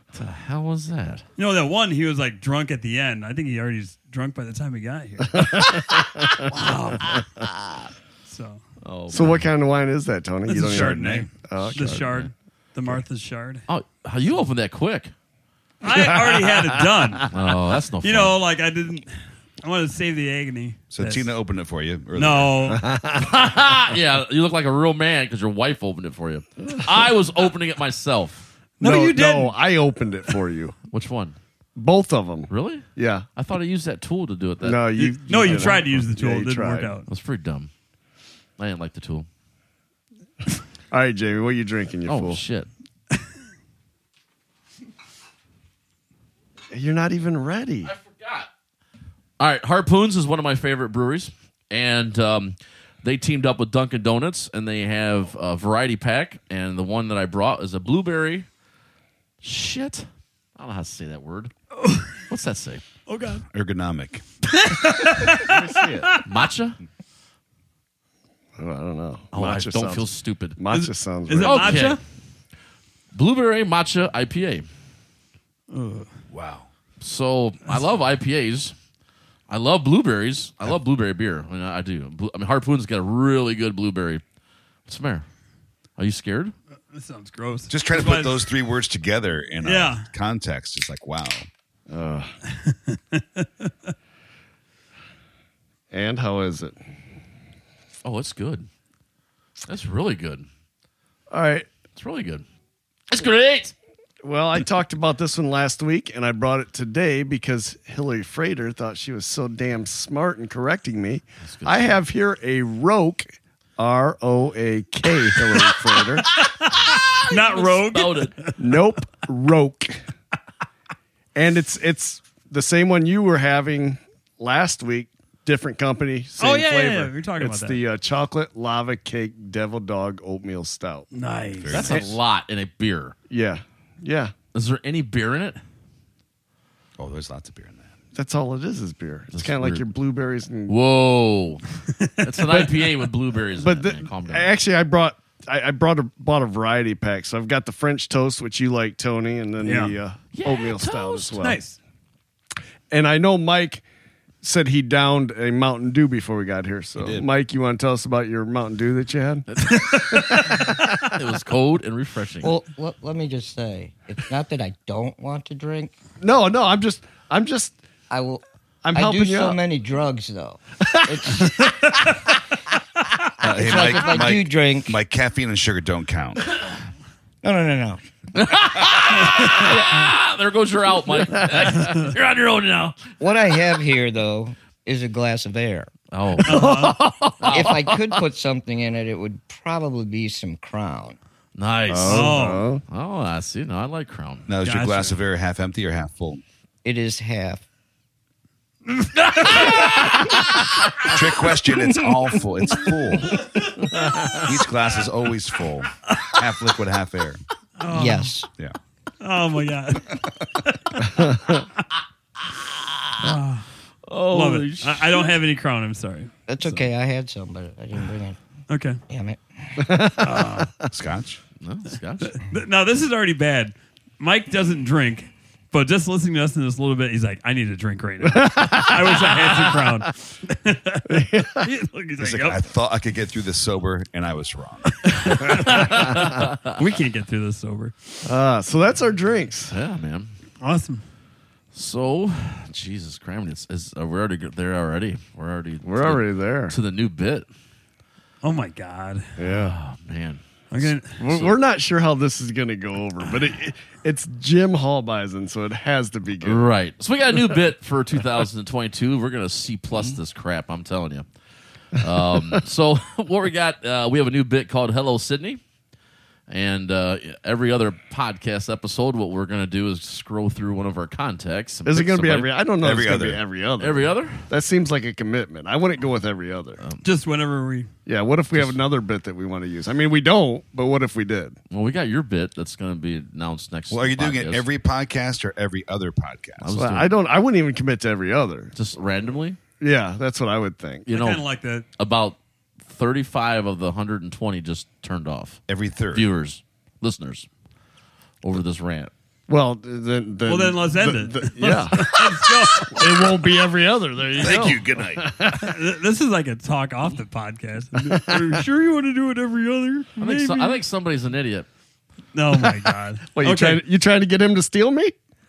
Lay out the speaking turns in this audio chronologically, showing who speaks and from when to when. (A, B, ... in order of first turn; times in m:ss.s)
0:00.1-0:01.2 A
0:01.4-0:05.6 B
0:05.3-0:06.4 C
0:06.4-0:07.3 B
0:08.3-0:08.6 B
0:08.8-0:09.5 A
0:09.1-0:12.1 C
0:10.5-0:13.6 B
0:10.5-0:11.3 D
0:11.6-0:12.3 A
0:13.7-0:15.1 A
0:15.8-0:17.3 B
0:15.8-0:17.3 C
0:17.3-0:18.4 A
0:18.0-0:21.3 B
0:20.9-0:22.8 D
0:22.1-0:22.8 B
0:22.8-0:23.3 C
0:23.2-0:28.5 A
0:28.8-0:29.6 B
0:28.8-0:30.8 C
0:30.9-0:31.4 A
0:31.8-0:33.2 C
0:32.5-0:36.0 A
0:34.6-0:36.9 C
0:35.0-0:37.1 B
0:37.1-0:37.7 A
0:38.6-0:39.3 A
0:40.9-0:42.4 C
0:42.1-0:42.7 A
0:46.7-0:47.9 C
0:47.8-0:48.5 A
0:49.4-0:58.5 A
0:59.4-1:01.5 A
1:01.8-1:02.2 B
1:02.3-1:02.8 A
1:03.1-1:03.4 B
1:03.5-1:04.2 D
1:04.5-1:06.2 B
1:05.3-1:06.2 C
1:06.2-1:06.8 A
1:08.6-1:11.9 C
1:09.3-1:10.6 A
1:10.7-1:12.0 B
1:11.4-1:12.0 A
1:13.1-1:14.7 A
1:15.7-1:16.1 B
1:16.3-1:16.7 D
1:17.0-1:18.7 A
1:19.5-1:24.2 A
1:24.8-1:25.2 A
1:26.0-1:26.5 A
1:26.9-1:28.5 B
1:27.7-1:31.5 D
1:29.6-1:30.1 B
1:31.9-1:32.3 C
1:32.6-1:33.7 B
1:35.9-1:36.8 C
1:38.0-1:38.7 A
1:39.7-1:40.5 A
1:41.3-1:41.7 C
1:42.0-1:42.4 A
1:43.1-1:43.7 A
1:44.2-1:56.3 C
1:51.4-1:52.0 A
1:56.3-1:58.8 B
1:56.7-1:58.3 A
1:58.6-2:00.0 C
2:01.3-2:11.1 C
2:06.4-2:07.8 B
2:11.1-2:11.9 B
2:11.6-2:12.1 D
2:11.7-2:13.1 A
2:11.8-2:12.1 C
2:13.3-2:14.3 C
2:14.5-2:15.6 A
2:17.0-2:17.9 D
2:18.1-2:20.8 C
2:19.3-2:19.9 A
2:20.7-2:21.6 A
2:22.2-2:24.5 A
2:23.6-2:31.6 C
2:29.6-2:30.0 B
2:30.3-2:31.4 A
2:31.4-2:31.8 B
2:32.9-2:33.8 C
2:34.4-2:41.1 C
2:37.0-2:37.3 D
2:39.5-2:39.9 A
2:39.8-2:40.7 B
2:41.0-2:42.5 A
2:42.4-2:45.9 E
2:46.2-2:47.8 C
2:48.1-2:48.4 E
2:48.8-2:49.6 C
2:48.9-2:51.6 E
2:50.9-2:52.1 C
2:53.4-2:56.5 D
2:53.5-2:54.9 E
2:57.4-2:58.0 E
2:58.3-3:03.0 A
3:03.2-3:05.9 E
3:06.1-3:06.7 A
3:06.4-3:08.0 C
3:06.4-3:07.0 B
3:07.4-3:07.9 A
3:07.5-3:11.2 E
3:11.5-3:12.4 A
3:11.9-3:12.8 C
3:12.0-3:12.7 B
3:12.9-3:14.5 A
3:14.5-3:16.4 D
3:14.6-3:15.2 B
3:16.8-3:17.6 E
3:18.9-3:20.1 B
3:21.0-3:23.5 D
3:23.8-3:24.4 C
3:24.4-3:27.4 D
3:27.8-3:28.3 B
3:27.9-3:28.5 E
3:29.2-3:31.2 B
3:31.1-3:31.6 C
3:33.2-3:33.6 B
3:34.0-3:35.3 A
3:34.3-3:36.3 B
3:36.5-3:38.4 E
3:38.7-3:39.0 B
3:39.1-3:39.4 E
3:39.8-3:40.6 C
3:40.2-3:40.7 B
3:40.9-3:41.4 D
3:41.6-3:42.4 A
3:42.2-3:52.6 B
3:48.2-3:50.0 C
3:51.0-3:51.7 C
3:52.2-3:55.3 D
3:55.0-3:58.2 B
3:55.8-3:56.8 A
3:58.2-3:59.7 C
3:59.7-4:00.3 A
4:00.6-4:01.0 B
4:01.7-4:07.5 A
4:05.8-4:06.7 C
4:08.4-4:09.3 B
4:09.4-4:09.8 C
4:09.4-4:11.5 A
4:10.7-4:11.2 B
4:11.2-4:16.7 C
4:16.4-4:21.2 A
4:21.9-4:25.6 A
4:26.5-4:32.5 A
4:31.8-4:36.8 C
4:32.8-4:33.4 D
4:33.8-4:34.4 A
4:36.8-4:37.0 A
4:37.0-4:37.9 B
4:38.0-4:41.6 C
4:38.5-4:38.8 A
4:41.7-4:44.6 A
4:43.9-4:46.8 D
4:46.6-4:47.1 A
4:46.7-4:48.7 C
4:48.7-4:49.6 A
4:49.8-4:51.1 C
4:51.1-4:51.4 A
4:51.1-4:51.8 B
4:52.0-4:57.5 A
4:55.7-4:56.3 D
4:58.4-4:59.1 A
4:59.5-5:05.7 C
5:00.4-5:03.2 B
5:04.4-5:05.3 D
5:05.5-5:10.8 B
5:08.0-5:08.6 C
5:10.2-5:11.7 A
5:12.3-5:13.8 B
5:13.3-5:15.1 C